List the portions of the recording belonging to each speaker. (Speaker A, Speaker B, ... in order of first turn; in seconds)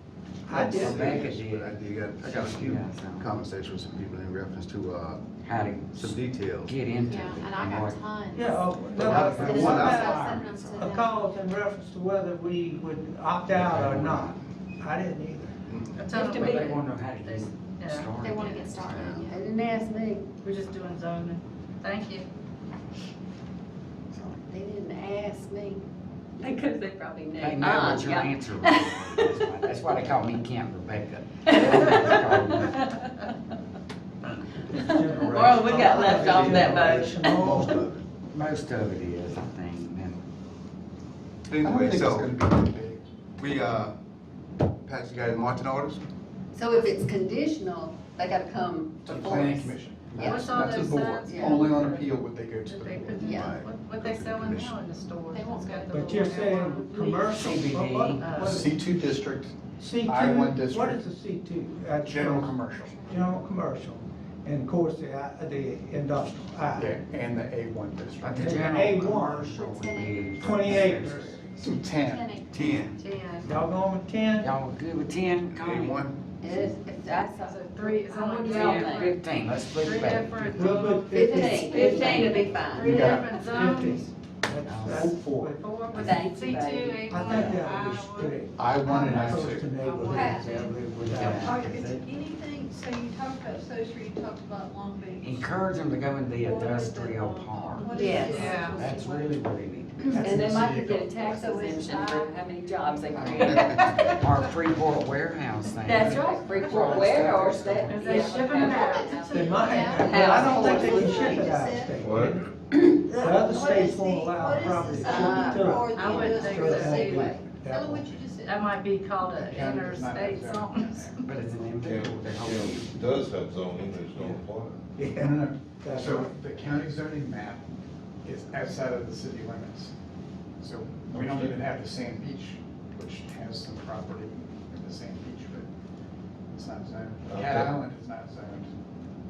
Speaker A: 0.5-1.2, 8.3-15.6, 34.7-37.8, 55.9-58.8, 59.8-67.0, 68.3-69.6, 70.4-71.4, 73.4-74.5, 80.5-85.7, 87.1-91.7, 100.3-100.8, 109.3-112.5, 113.1-118.3, 125.0-126.4
Speaker B: 0.5-1.3, 19.0-20.3, 24.1-25.8, 26.4-29.4, 31.5-33.1, 34.7-37.7, 46.5-50.5, 51.3-51.8, 53.1-53.6, 76.4-79.2, 81.1-83.8, 85.9-87.2, 97.9-98.7, 100.1-103.9, 105.8-111.8, 112.8-117.5
Speaker C: 0.5-5.2, 6.0-6.7, 9.0-10.4, 15.7-16.0, 36.2-38.0, 41.5-42.4, 43.4-43.9, 44.9-46.0, 53.3-54.8, 72.5-72.9, 75.5-76.2
Speaker D: 0.6-3.4, 5.4-8.0, 8.9-10.9, 13.5-14.4, 16.1-19.3, 27.4-32.9, 38.3-40.2, 57.3-58.3, 68.2-71.4, 72.6-72.9, 74.4-76.1, 78.5-80.9, 84.7-85.1, 85.9-86.3, 89.2-89.5, 90.4-92.0, 95.2-100.3, 103.2-108.5, 121.3-123.1, 124.1-124.4
Speaker E: 7.1-11.2, 18.2-19.4, 55.3-56.5, 69.5-70.3, 71.9-72.5, 109.6-111.9, 113.3-115.0
Speaker F: 16.0-18.2, 20.4-22.2, 50.2-52.1, 52.7-57.2, 58.2-58.6, 73.0-73.5, 77.3-79.2, 79.8-84.1, 85.6-90.5, 98.4-98.8, 107.9-109.6, 115.8-117.4, 118.4-121.2
Speaker G: 41.6-43.0, 49.1-53.3, 58.4-61.0, 62.0-63.1, 66.8-68.5, 71.6-72.4, 82.8-83.4, 84.8-85.5, 88.6-89.7, 100.1-101.2, 119.2-121.2, 125.2-129.9, 130.6-135.7, 136.5-138.8
Speaker H: 91.3-95.7, 96.3-99.4, 101.3-102.4, 114.7-115.3, 117.7-118.6
Speaker I: 112.0-112.4, 121.8-124.8, 131.1-131.6, 137.3-137.8